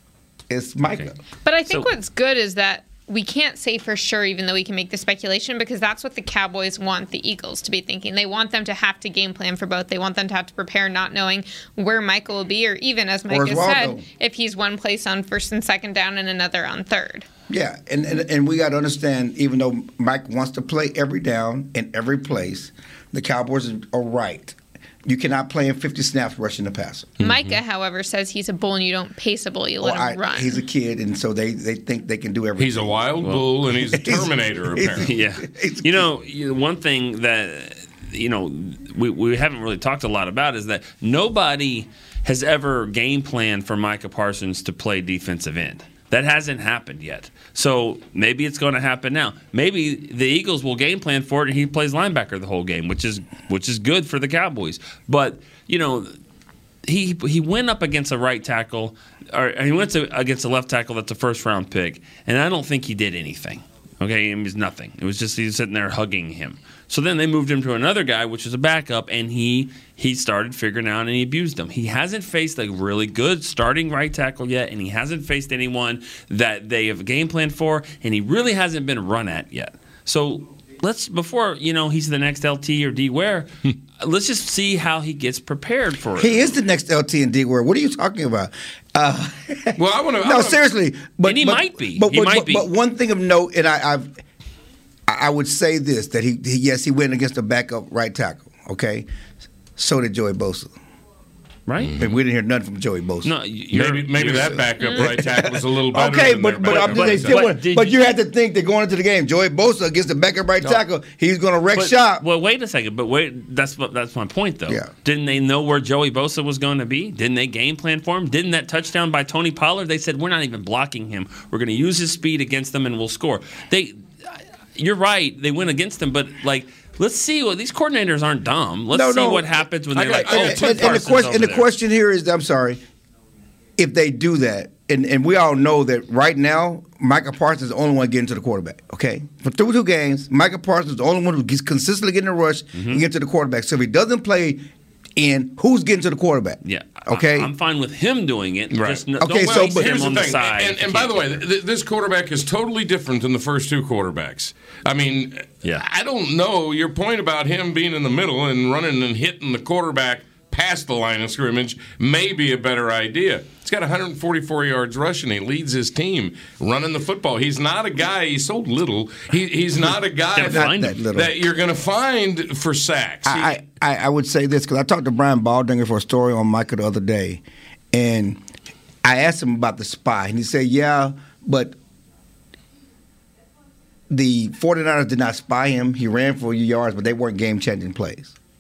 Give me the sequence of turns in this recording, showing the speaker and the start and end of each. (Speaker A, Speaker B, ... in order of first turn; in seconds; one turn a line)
Speaker A: 0.5-1.1
Speaker B: 1.4-17.3
Speaker A: 13.3-14.0
Speaker A: 17.5-27.1
Speaker B: 27.2-30.6
Speaker C: 27.2-27.6
Speaker A: 29.8-33.1
Speaker D: 32.6-35.1
Speaker A: 33.7-36.1
Speaker C: 35.0-56.1
Speaker C: 56.8-86.5
Speaker A: 86.2-94.1
Speaker D: 89.8-90.6
Speaker C: 91.2-92.7
Speaker A: 95.1-99.1
Speaker A: 99.8-100.7
Speaker C: 101.7-102.0
Speaker A: 102.0-103.3
Speaker C: 103.2-105.0
Speaker D: 103.7-107.4
Speaker A: 105.0-112.2
Speaker C: 106.7-108.0
Speaker C: 111.7-131.7
Speaker A: 128.9-132.8
Speaker D: 129.9-131.0
Speaker A: 133.8-147.5
Speaker C: 142.7-143.0
Speaker C: 146.6-151.2
Speaker D: 148.7-173.6
Speaker A: 149.2-150.0
Speaker C: 170.3-171.0
Speaker A: 170.4-171.3
Speaker A: 173.2-178.4
Speaker A: 179.0-181.8
Speaker A: 184.1-188.3